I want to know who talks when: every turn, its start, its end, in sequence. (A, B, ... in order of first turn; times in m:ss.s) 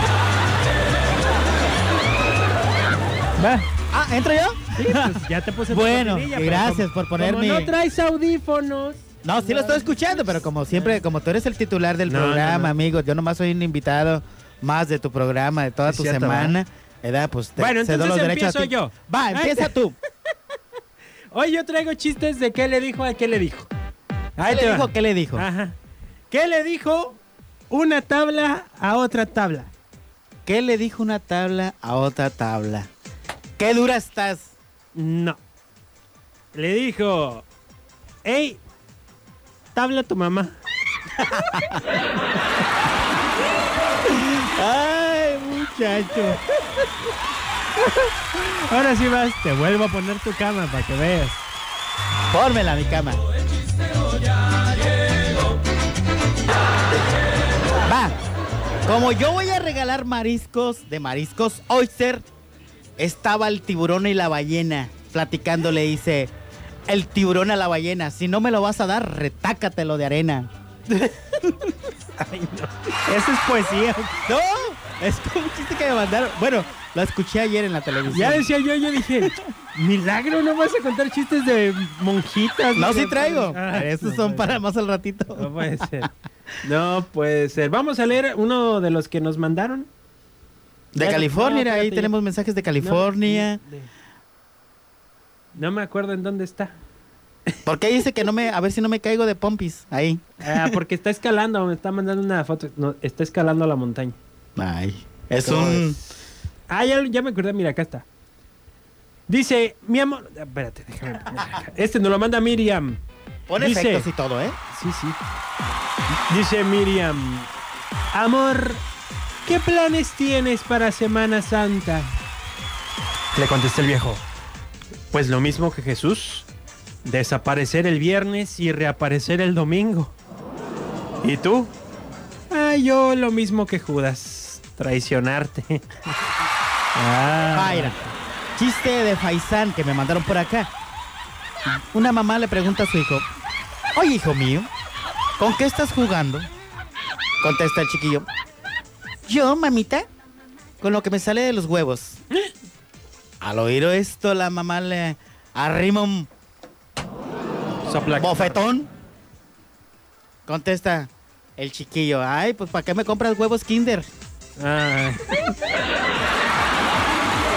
0:03.4-0:03.6 A
0:03.9-0:05.2 B
0:04.7-0:11.0 A
0:05.7-0:07.7 B
0:09.2-0:19.9 B
0:12.1-0:12.7 A
0:15.9-0:16.6 A
0:17.6-0:19.8 A
0:21.3-0:23.7 A
0:24.4-0:25.8 A
0:24.4-0:25.4 B
0:26.3-0:29.7 A
0:30.4-0:32.9 B
0:33.6-0:34.5 B
0:34.9-0:35.4 A
0:36.5-0:37.4 A
0:38.2-0:38.6 A
0:39.7-0:40.6 A
0:41.2-0:41.8 B
0:44.1-0:46.4 B
0:47.8-0:51.4 A
0:52.3-0:53.2 B
0:57.8-0:58.2 B
0:58.8-1:02.2 B
1:03.0-1:06.3 B
1:06.9-1:10.5 B
1:10.9-1:11.4 A
1:12.2-1:12.7 A
1:13.0-1:18.5 B
1:18.1-1:24.6 A
1:22.7-1:26.1 B
1:25.3-1:26.1 A
1:26.6-1:29.9 A
1:30.9-1:33.6 B
1:31.0-1:32.1 A
1:32.8-1:33.9 A
1:35.5-1:36.8 A
1:37.6-1:40.7 B
1:40.4-1:44.2 A
1:44.6-1:46.0 B
1:45.4-1:46.0 A
1:46.7-1:48.0 A
1:49.3-1:53.0 A
1:53.5-1:54.6 B
1:53.6-1:54.1 A
1:54.7-1:55.2 A
1:56.3-1:57.5 A
1:58.1-1:58.8 A
1:59.4-2:02.1 A
2:03.3-2:04.2 A
2:05.1-2:06.5 A
2:07.0-2:10.1 A
2:11.2-2:11.7 A
2:12.5-2:16.1 A
2:16.9-2:18.1 A
2:17.5-2:18.0 B
2:18.6-2:20.7 B
2:21.7-2:23.2 B
2:23.9-2:24.7 B
2:25.4-2:26.5 B
2:27.4-2:28.3 B
2:29.2-2:30.0 B
2:30.8-2:32.2 B
2:33.4-2:36.3 B
2:37.8-2:38.6 A
2:38.2-2:38.9 B
2:40.4-2:44.1 B
2:44.6-2:45.5 A